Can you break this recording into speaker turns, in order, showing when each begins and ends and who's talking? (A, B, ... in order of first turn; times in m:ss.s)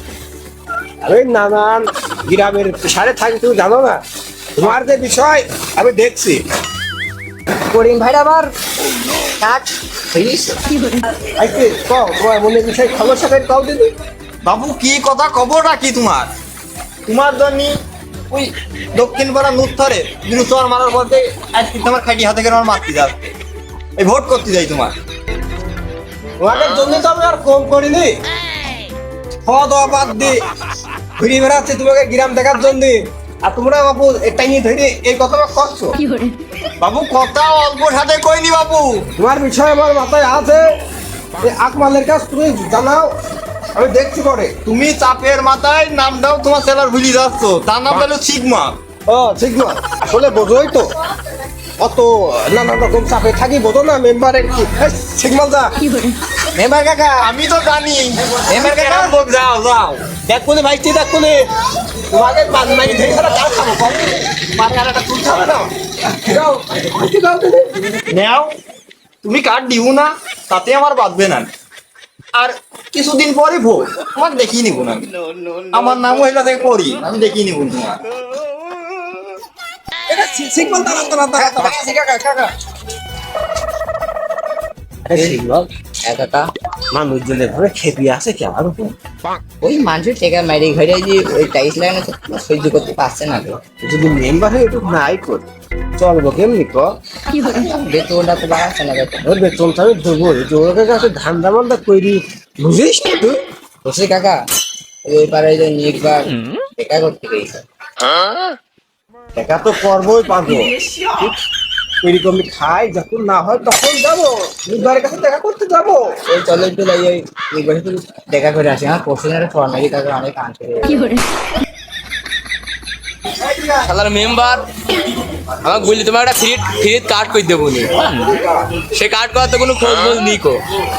0:01.0-0:04.0 A
0:04.6-0:06.4 A
0:07.7-0:08.5 B
0:09.4-0:10.6 B
0:11.4-0:13.9 A
0:14.4-0:16.3 C
0:17.1-0:17.8 C
0:18.3-0:23.2 C
0:24.0-0:24.9 C
0:26.4-0:28.2 A
0:29.5-0:30.4 A
0:31.2-0:36.0 A
0:36.8-0:39.1 C
0:39.2-0:40.7 A
0:41.4-0:43.2 A
0:43.8-0:44.6 A
0:44.6-0:48.8 C
0:49.1-0:50.9 A
0:51.8-0:55.8 A
0:56.5-0:57.3 B
0:57.2-1:00.1 C
0:58.4-0:59.2 A
1:00.1-1:01.5 A
1:02.1-1:07.8 A
1:08.1-1:08.6 C
1:09.2-1:11.5 C
1:12.4-1:15.1 C
1:15.7-1:18.0 C
1:20.1-1:21.8 A
1:21.4-1:22.5 B
1:25.1-1:25.7 A
1:26.0-1:26.5 B
1:26.9-1:28.9 A
1:29.6-1:33.6 B
1:33.8-1:35.4 A
1:36.0-1:37.0 A
1:37.4-1:39.2 B
1:39.2-1:43.4 A
1:43.8-1:44.4 B
1:45.0-1:47.6 B
1:49.4-1:51.4 A
1:52.0-1:56.2 A
1:56.3-2:01.1 B
2:03.5-2:04.6 D
2:05.6-2:10.6 D